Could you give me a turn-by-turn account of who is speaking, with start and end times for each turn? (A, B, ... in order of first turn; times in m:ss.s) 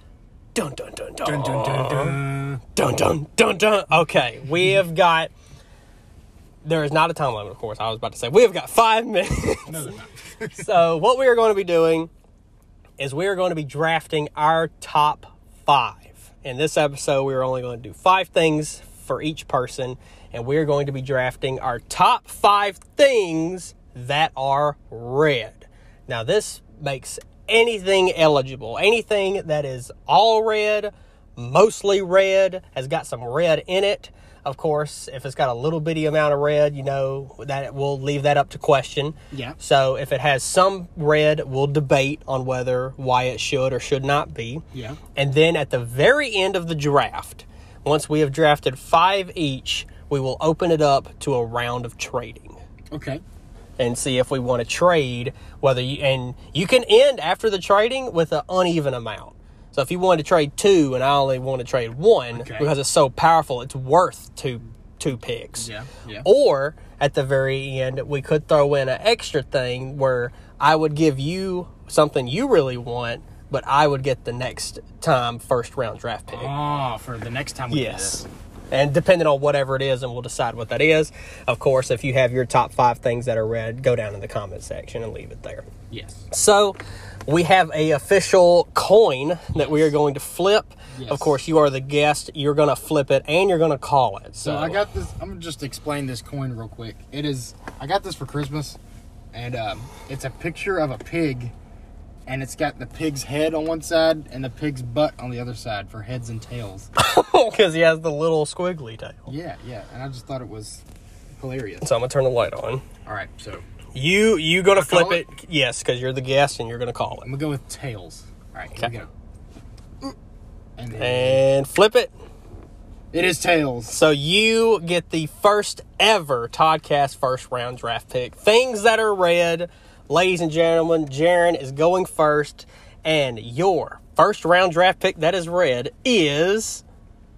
0:00.5-0:02.2 A
0:01.2-0:02.6 B
0:02.7-0:05.3 A
0:06.6-0:09.9 A
0:09.6-0:10.7 B
0:10.5-0:12.1 A
0:13.0-0:44.6 A
0:39.3-0:39.6 B
0:44.7-0:45.0 B
0:45.1-0:52.6 A
0:52.9-0:53.2 B
0:53.8-1:05.7 A
1:02.3-1:02.7 B
1:05.6-1:06.3 B
1:06.2-1:16.5 A
1:16.3-1:18.3 B
1:17.7-1:25.7 A
1:25.9-1:26.3 B
1:26.3-1:34.8 A
1:29.5-1:29.9 B
1:30.9-1:31.4 B
1:34.4-1:38.8 B
1:39.3-1:41.5 B
1:42.2-1:46.9 B
1:47.0-1:49.3 A
1:49.3-1:50.8 B
1:51.4-1:51.9 B
1:51.8-1:52.8 A
1:53.0-1:53.6 B
1:53.9-1:57.3 A
1:54.7-1:55.2 B
1:57.2-1:59.1 B
2:00.8-2:01.4 B
2:01.0-2:02.1 A
2:03.1-2:04.0 B
2:03.9-2:16.8 A